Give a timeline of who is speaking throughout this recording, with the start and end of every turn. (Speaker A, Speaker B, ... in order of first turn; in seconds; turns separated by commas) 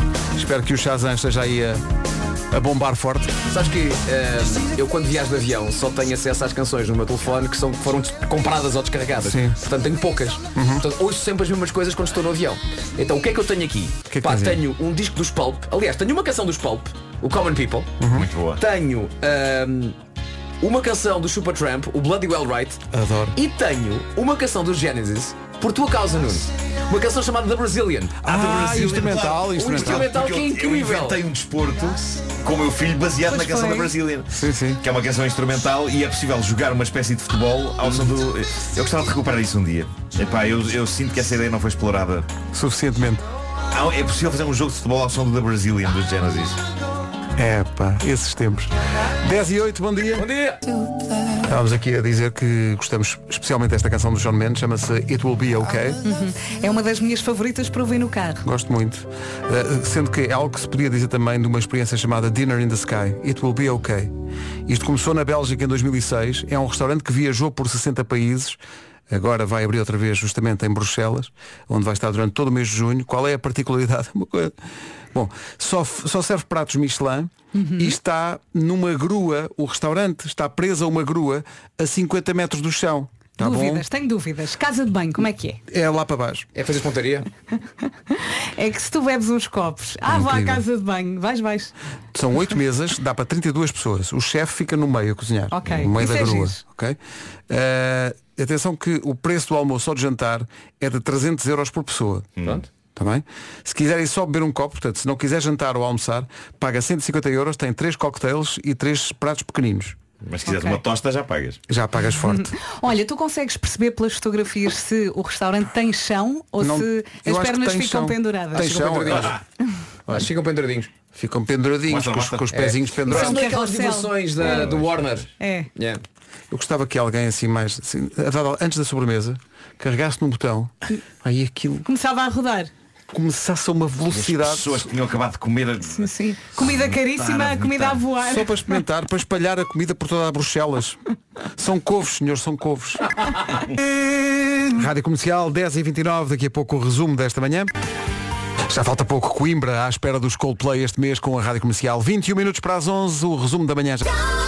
Speaker A: 0.3-1.8, Speaker A: 2.5-3.3, Speaker B: 3.5-17.9, Speaker A: 9.2-9.6, Speaker A: 10.6-10.8, Speaker A: 14.1-14.6, Speaker A: 18.0-18.3, Speaker C: 18.1-18.6, Speaker B: 18.6-19.9, Speaker B: 20.6-22.8, Speaker A: 22.9-23.4, Speaker B: 23.4-28.3, Speaker A: 28.2-30.1, Speaker C: 28.2-42.3, Speaker B: 29.4-31.2, Speaker D: 33.3-33.9, Speaker A: 34.3-34.8, Speaker A: 42.5-43.2, Speaker C: 43.7-46.6, Speaker A: 47.4-50.3, Speaker B: 50.2-50.6, Speaker A: 51.4-56.0, Speaker D: 56.0-58.4, Speaker A: 58.4-64.1, Speaker A: 64.7-68.6, Speaker A: 69.1-74.5, Speaker A: 75.1-83.8, Speaker D: 77.5-78.0, Speaker D: 83.4-85.6, Speaker A: 85.7-86.5, Speaker B: 86.5-87.3, Speaker D: 88.1-91.7, Speaker A: 90.1-90.6, Speaker A: 92.1-97.0, Speaker D: 95.5-96.6, Speaker A: 97.5-102.3, Speaker C: 102.4-102.6, Speaker A: 102.9-110.0, Speaker C: 110.2-111.6, Speaker D: 110.4-110.8, Speaker A: 111.7-112.5, Speaker D: 112.2-118.7, Speaker A: 116.6-119.4, Speaker B: 118.6-119.4, Speaker B: 120.1-120.9, Speaker A: 121.1-123.5, Speaker C: 121.9-122.6, Speaker B: 122.5-126.0, Speaker D: 123.1-124.5, Speaker D: 125.4-125.7, Speaker A: 126.5-131.9, Speaker D: 131.8-132.7, Speaker A: 133.1-134.9, Speaker C: 134.1-138.1, Speaker D: 135.9-138.6, Speaker A: 138.2-141.0, Speaker A: 141.6-143.1, Speaker A: 144.7-147.7, Speaker A: 148.7-154.1